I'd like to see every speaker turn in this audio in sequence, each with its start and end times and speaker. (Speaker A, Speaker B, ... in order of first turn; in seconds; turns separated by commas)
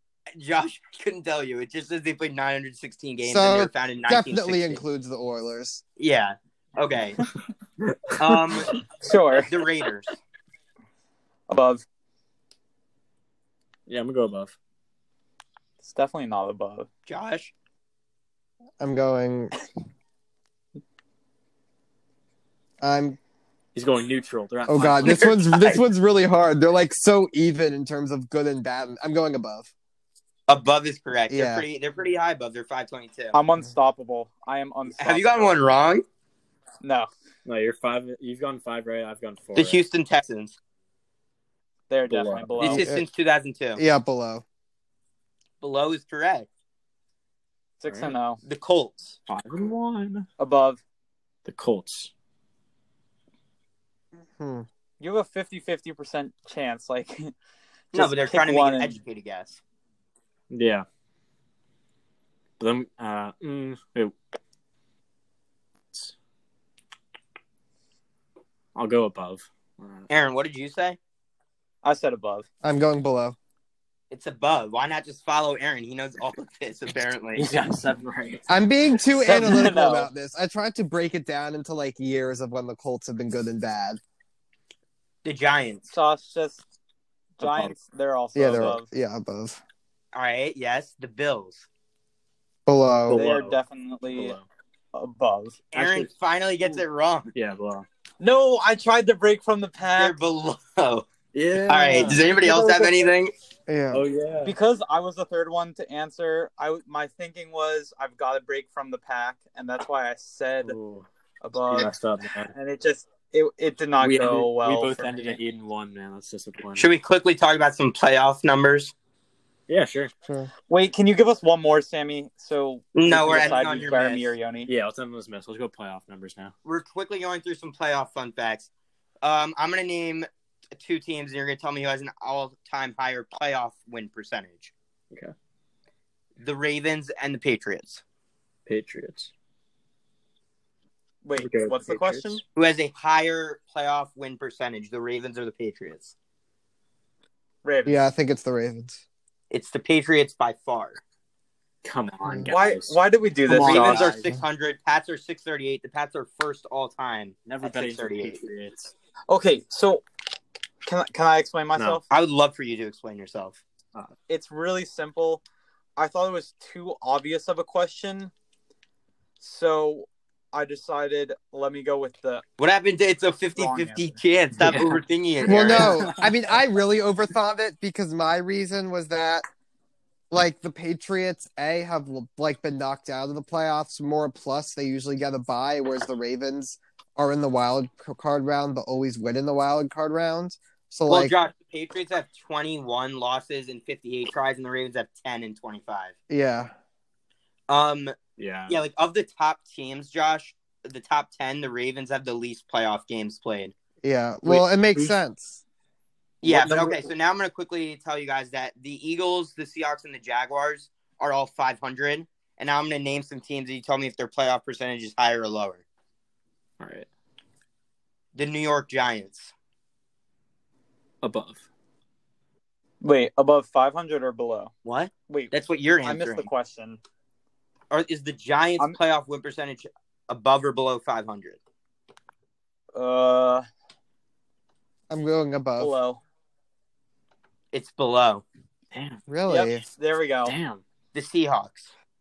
Speaker A: 0.3-4.8, Speaker B: 3.2-5.8, Speaker A: 6.0-7.2, Speaker C: 7.8-8.1, Speaker A: 8.2-8.7, Speaker D: 9.0-9.6, Speaker A: 9.3-10.2, Speaker D: 11.5-11.8, Speaker C: 13.9-14.5, Speaker D: 15.8-16.9, Speaker A: 17.1-17.5, Speaker B: 18.8-19.5, Speaker B: 22.8-23.2, Speaker C: 23.7-25.4, Speaker B: 24.7-29.7, Speaker A: 25.0-25.8, Speaker A: 30.5-33.4, Speaker B: 31.3-31.6, Speaker D: 33.3-35.5, Speaker A: 35.0-36.0, Speaker D: 36.8-37.1, Speaker C: 37.4-39.8, Speaker A: 39.5-40.5, Speaker D: 41.9-42.9, Speaker C: 42.1-42.8, Speaker A: 42.6-43.8, Speaker B: 42.7-43.0, Speaker B: 43.8-44.4, Speaker A: 45.6-46.5, Speaker D: 47.8-48.4, Speaker C: 47.9-48.1, Speaker A: 48.4-49.2, Speaker C: 49.3-50.3, Speaker D: 50.4-50.8, Speaker C: 51.4-52.1, Speaker B: 54.4-54.6, Speaker D: 55.0-57.3, Speaker D: 57.9-59.0, Speaker A: 57.9-59.6, Speaker C: 60.5-60.8, Speaker C: 62.6-64.1, Speaker C: 68.7-70.1, Speaker A: 70.1-71.0, Speaker D: 71.8-72.5, Speaker B: 72.6-73.3, Speaker A: 74.1-77.5, Speaker C: 77.3-78.4, Speaker B: 78.5-84.0, Speaker D: 79.2-80.1, Speaker A: 85.2-85.8, Speaker D: 85.9-86.6, Speaker D: 87.4-88.8, Speaker C: 87.4-87.7, Speaker B: 88.3-89.6, Speaker A: 90.1-91.7, Speaker B: 92.7-93.2, Speaker C: 93.0-93.6, Speaker D: 93.1-94.3, Speaker C: 94.1-94.4, Speaker D: 94.9-95.6, Speaker A: 95.7-97.3, Speaker C: 95.7-96.1, Speaker C: 97.3-97.8, Speaker D: 98.2-100.2, Speaker A: 99.9-101.1, Speaker C: 101.3-103.1, Speaker A: 101.6-103.3, Speaker B: 103.7-104.0, Speaker C: 103.9-104.5, Speaker D: 104.4-110.8, Speaker C: 110.6-111.0, Speaker D: 111.4-111.9, Speaker C: 111.7-112.5, Speaker D: 112.5-115.4, Speaker C: 114.0-116.9, Speaker A: 116.8-118.9, Speaker C: 119.7-120.1, Speaker B: 120.2-120.5, Speaker D: 120.7-124.7, Speaker A: 122.9-124.3, Speaker C: 124.7-126.5, Speaker A: 126.6-128.7, Speaker A: 129.2-134.7, Speaker A: 136.4-138.0, Speaker C: 138.7-139.3, Speaker D: 141.2-142.4, Speaker C: 141.4-142.4, Speaker A: 142.5-146.1, Speaker D: 147.6-148.1, Speaker B: 147.8-149.0, Speaker A: 149.5-151.0, Speaker C: 151.8-154.3, Speaker D: 152.5-154.1, Speaker A: 153.6-158.4, Speaker C: 157.4-158.9, Speaker D: 159.3-160.0, Speaker D: 160.8-162.0, Speaker C: 161.7-162.0, Speaker A: 162.1-163.6, Speaker D: 164.3-165.4, Speaker D: 166.0-168.3, Speaker D: 169.4-172.4, Speaker A: 172.6-176.0, Speaker D: 173.6-174.2, Speaker C: 174.6-176.3, Speaker B: 175.4-179.4, Speaker B: 180.3-191.3, Speaker A: 191.1-196.1, Speaker B: 196.3-196.7, Speaker A: 197.7-198.1, Speaker C: 198.4-198.8, Speaker A: 198.7-203.7, Speaker B: 204.0-205.6, Speaker C: 204.4-205.2, Speaker A: 206.4-215.8, Speaker C: 206.4-207.1, Speaker C: 216.8-217.1, Speaker A: 218.3-219.5, Speaker C: 221.2-221.6, Speaker D: 223.0-224.7, Speaker A: 224.8-226.5, Speaker D: 226.0-227.0, Speaker A: 227.9-231.6, Speaker D: 232.9-233.6, Speaker B: 235.1-235.9, Speaker D: 235.8-236.2, Speaker A: 237.7-238.4, Speaker C: 238.9-239.2, Speaker B: 239.3-239.8, Speaker D: 239.5-240.5, Speaker C: 240.4-240.8, Speaker A: 241.1-241.9